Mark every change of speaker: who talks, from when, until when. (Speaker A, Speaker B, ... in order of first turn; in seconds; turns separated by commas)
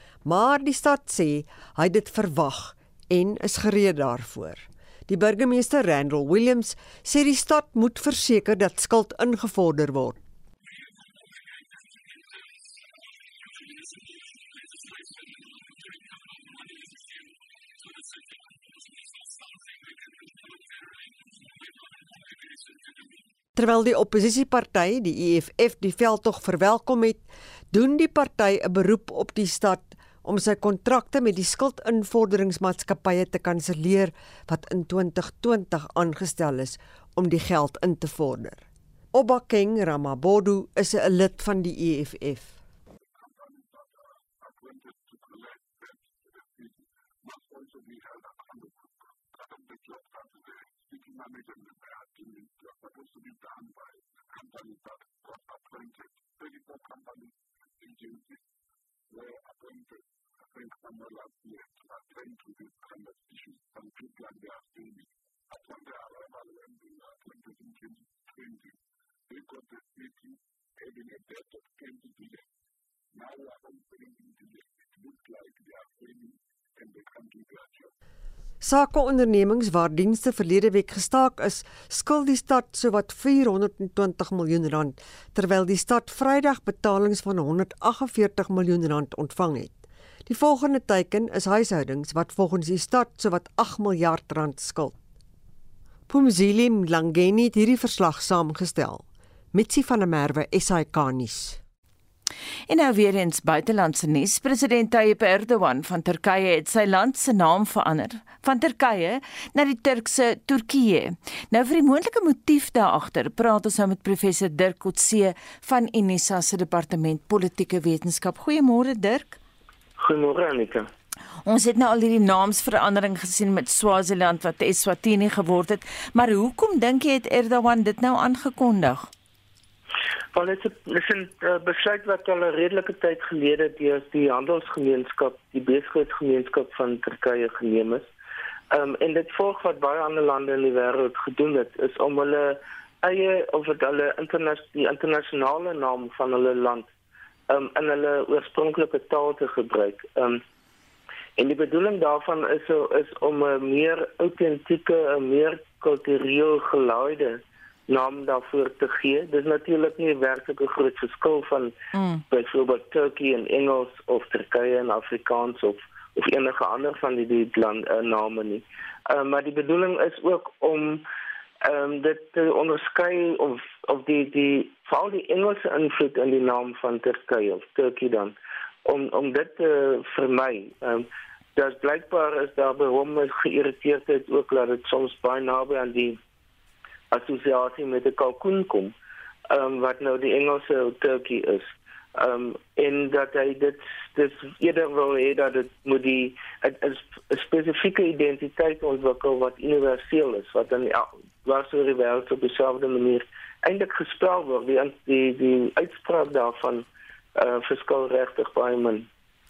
Speaker A: 0.2-10.2, Speaker A: 23.6-42.5, Speaker B: 44.5-45.9, Speaker B: 47.3-48.7, Speaker B: 49.5-57.3, Speaker B: 57.8-58.2, Speaker B: 59.2-59.9, Speaker B: 60.6-65.0, Speaker B: 65.6-67.9, Speaker B: 69.3-70.1, Speaker B: 70.9-72.4, Speaker B: 73.2-77.8, Speaker A: 78.6-95.0, Speaker A: 96.1-101.6, Speaker C: 102.7-119.4, Speaker D: 120.0-120.9, Speaker C: 121.5-129.1, Speaker D: 130.3-138.1, Speaker D: 138.7-146.9, Speaker D: 147.5-150.4, Speaker D: 151.4-161.7, Speaker C: 161.9-162.2, Speaker D: 162.3-171.0, Speaker D: 171.7-178.3, Speaker D: 178.9-186.2, Speaker D: 187.1-188.9, Speaker D: 189.5-206.8, Speaker D: 207.4-209.1